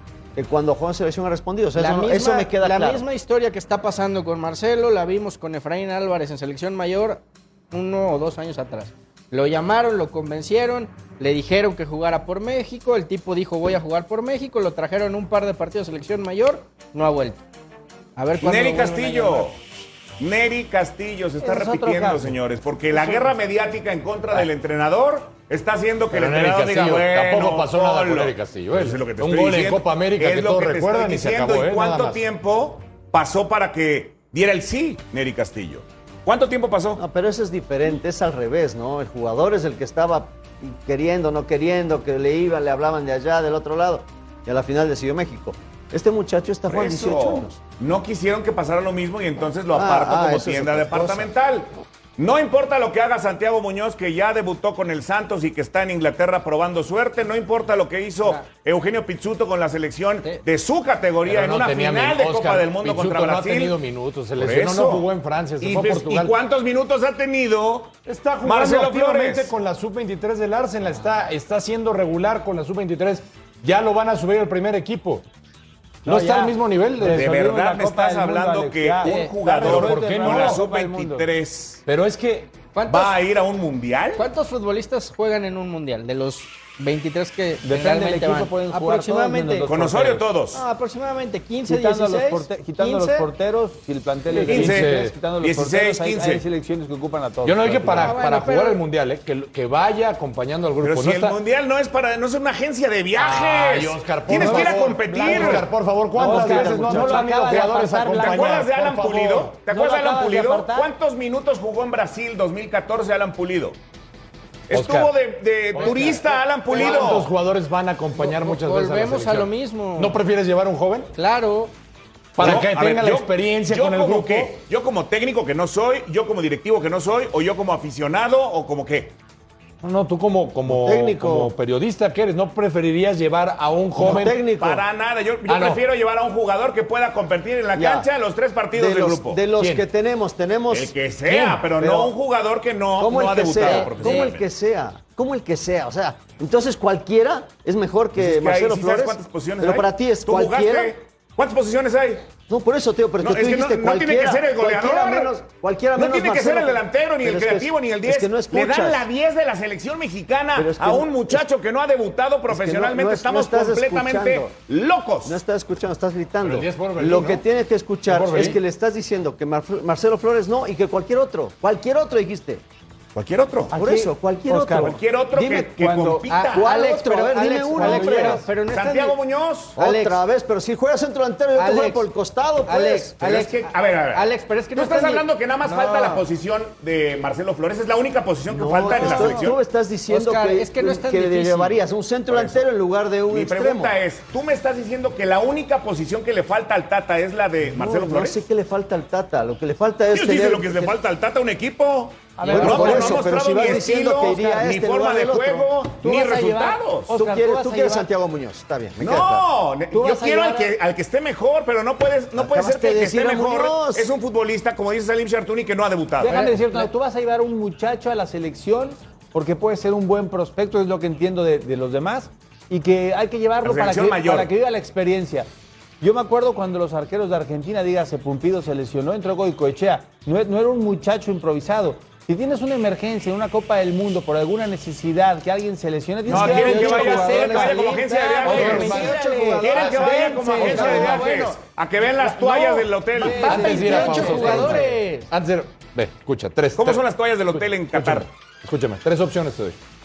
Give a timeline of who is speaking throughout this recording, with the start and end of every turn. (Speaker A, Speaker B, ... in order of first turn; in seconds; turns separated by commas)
Speaker A: 0.4-3.0, Speaker B: 1.8-17.4, Speaker B: 18.2-19.5, Speaker C: 18.4-19.6, Speaker C: 20.2-37.0, Speaker D: 21.4-23.3, Speaker E: 26.1-32.2, Speaker A: 37.0-47.6, Speaker C: 46.7-63.8, Speaker A: 49.7-51.3, Speaker E: 61.2-66.3, Speaker C: 64.4-65.1, Speaker C: 65.6-69.5, Speaker E: 68.1-75.2, Speaker E: 76.0-77.3, Speaker D: 76.0-81.3, Speaker C: 77.1-81.8, Speaker B: 79.0-79.3, Speaker E: 79.6-80.6, Speaker E: 81.9-82.5, Speaker B: 82.7-83.2, Speaker C: 82.9-84.2, Speaker B: 84.2-89.7, Speaker D: 87.6-90.3, Speaker C: 89.7-90.6, Speaker B: 90.5-93.3, Speaker D: 91.7-98.2, Speaker C: 94.4-96.5, Speaker E: 94.5-95.1, Speaker E: 97.4-101.4, Speaker B: 98.0-98.8, Speaker C: 100.8-105.7, Speaker E: 103.2-109.6, Speaker D: 104.3-108.7, Speaker C: 106.2-107.2, Speaker C: 108.1-113.8, Speaker D: 109.7-110.9, Speaker C: 114.7-117.3, Speaker E: 114.7-115.1, Speaker E: 115.7-121.1, Speaker B: 115.8-117.2, Speaker B: 118.2-120.2, Speaker B: 121.2-121.8, Speaker E: 122.4-124.6, Speaker C: 122.4-129.2, Speaker E: 129.8-134.4, Speaker A: 130.7-131.5, Speaker A: 134.0-134.8, Speaker C: 134.1-139.4, Speaker E: 135.5-135.8, Speaker A: 137.7-138.1, Speaker A: 138.7-140.9, Speaker E: 139.6-139.9, Speaker C: 140.7-144.4, Speaker E: 141.3-141.7, Speaker A: 141.8-142.1, Speaker A: 143.0-150.9, Speaker B: 143.6-144.3, Speaker C: 148.2-152.3, Speaker A: 152.5-159.1, Speaker C: 153.2-155.3, Speaker C: 156.0-165.4, Speaker A: 160.6-161.4, Speaker A: 162.5-164.6, Speaker A: 165.2-172.6, Speaker E: 166.4-167.4, Speaker E: 168.1-168.6, Speaker C: 173.2-173.7, Speaker D: 173.7-176.3, Speaker A: 173.7-175.5, Speaker C: 174.8-176.7, Speaker B: 176.3-179.2, Speaker A: 176.5-178.4, Speaker D: 177.8-178.5, Speaker C: 178.6-179.8, Speaker B: 179.8-180.2, Speaker A: 179.8-183.2, Speaker B: 181.6-182.1, Speaker B: 182.7-186.3, Speaker C: 183.2-189.6, Speaker A: 188.5-193.9, Speaker D: 188.9-189.5, Speaker B: 190.1-191.8, Speaker C: 192.3-192.6, Speaker C: 193.3-198.4, Speaker A: 197.6-200.9, Speaker C: 200.1-207.2, Speaker D: 202.4-204.6, Speaker A: 202.5-205.7, Speaker D: 206.0-208.1, Speaker A: 207.1-209.4, Speaker C: 209.0-216.5, Speaker D: 209.9-210.7, Speaker A: 212.3-214.1, Speaker D: 216.2-225.5, Speaker B: 216.3-216.9, Speaker C: 223.6-224.5, Speaker D: 226.0-241.4, Speaker E: 236.3-237.4, Speaker C: 236.3-243.8, Speaker B: 236.4-241.5, Speaker E: 238.4-239.2, Speaker E: 240.5-241.3, Speaker D: 243.1-244.9, Speaker B: 243.2-245.3, Speaker E: 243.2-249.8, Speaker C: 246.8-248.3